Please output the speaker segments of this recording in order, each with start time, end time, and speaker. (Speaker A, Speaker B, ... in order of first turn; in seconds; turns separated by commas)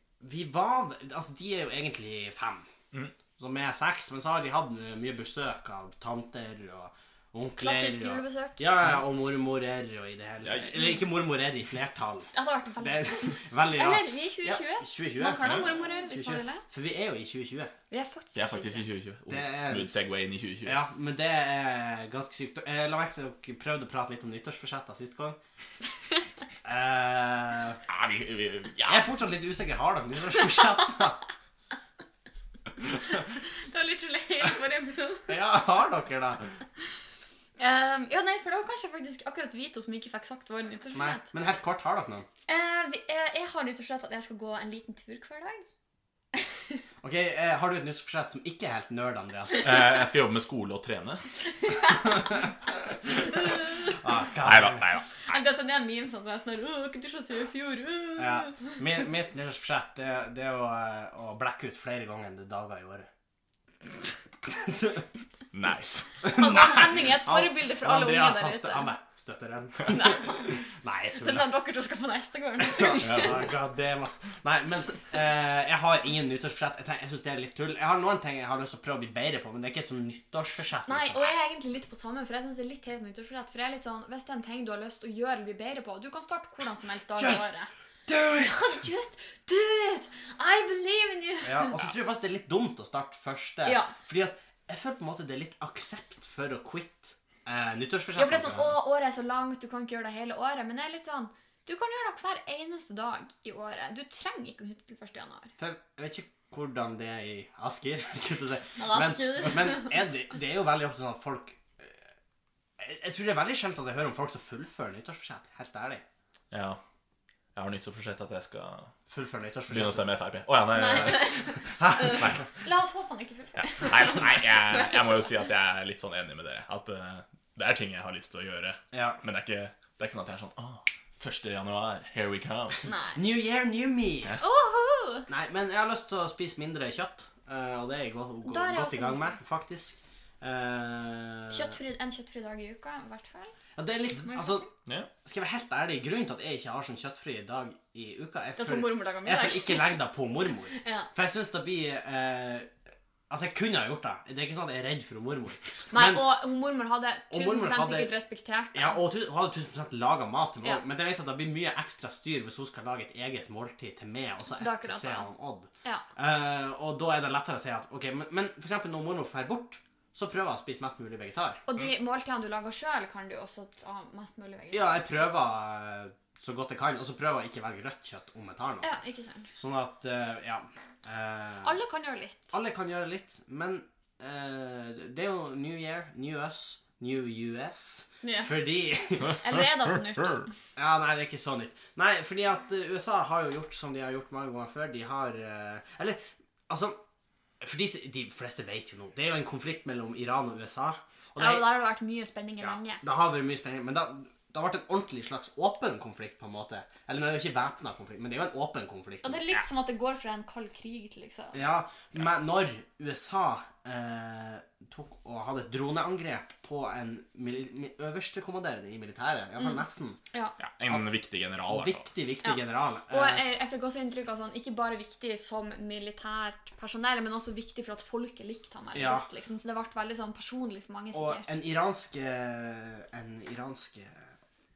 Speaker A: 0.2-2.7, Speaker A: 3.4-17.7, Speaker B: 7.6-8.7, Speaker C: 10.4-10.9, Speaker B: 12.3-16.6, Speaker C: 15.4-15.7, Speaker B: 17.9-18.8, Speaker C: 18.3-20.8, Speaker A: 19.3-19.9, Speaker A: 20.6-25.4, Speaker A: 26.6-27.8, Speaker C: 27.9-29.1, Speaker A: 28.9-31.2, Speaker B: 33.1-35.4, Speaker A: 35.3-36.5, Speaker B: 37.6-41.2, Speaker A: 40.9-42.3, Speaker B: 42.5-45.7, Speaker B: 46.3-46.8, Speaker A: 47.0-49.8, Speaker C: 49.6-51.2, Speaker B: 51.6-52.2, Speaker A: 52.1-52.4, Speaker A: 54.0-54.9, Speaker C: 54.4-55.4, Speaker B: 55.2-58.7, Speaker A: 58.2-63.1, Speaker A: 64.5-65.0, Speaker C: 65.5-66.2, Speaker A: 66.2-71.5, Speaker B: 66.3-68.9, Speaker B: 69.9-70.5, Speaker B: 71.2-73.5, Speaker A: 72.6-81.3, Speaker C: 73.0-73.4, Speaker B: 80.9-87.7, Speaker A: 87.2-87.5, Speaker A: 88.1-88.8, Speaker B: 88.4-91.7, Speaker A: 91.4-98.7, Speaker B: 93.6-93.9, Speaker B: 98.2-105.5, Speaker A: 105.6-112.0, Speaker B: 108.8-109.9, Speaker A: 112.8-116.0, Speaker C: 116.5-116.8, Speaker C: 117.5-118.9, Speaker A: 119.1-120.1, Speaker C: 119.7-121.5, Speaker B: 120.7-125.3, Speaker A: 121.7-122.4, Speaker C: 123.6-132.8, Speaker A: 128.9-129.2, Speaker B: 132.8-133.2, Speaker A: 133.1-134.3, Speaker B: 134.4-135.3, Speaker A: 135.3-141.7, Speaker B: 138.4-139.4, Speaker B: 141.5-143.5, Speaker A: 143.8-144.7, Speaker B: 144.2-144.7, Speaker C: 144.8-145.1, Speaker A: 145.2-152.7, Speaker B: 148.6-149.9, Speaker B: 150.8-151.1, Speaker A: 153.3-156.2, Speaker B: 155.9-159.0, Speaker A: 157.3-158.1, Speaker A: 158.7-171.6, Speaker B: 164.5-165.3, Speaker B: 171.7-175.3, Speaker A: 174.7-178.9, Speaker B: 178.8-179.5, Speaker A: 179.6-181.7, Speaker B: 181.6-182.5, Speaker A: 182.5-189.4, Speaker B: 188.2-188.5, Speaker B: 189.4-190.5, Speaker A: 190.8-197.0, Speaker A: 197.6-201.6, Speaker B: 201.4-203.0, Speaker A: 203.0-209.6, Speaker B: 209.2-211.6, Speaker A: 211.5-220.2, Speaker C: 220.6-222.0, Speaker A: 221.7-223.4, Speaker B: 222.4-231.5, Speaker A: 228.9-229.2, Speaker A: 231.1-234.3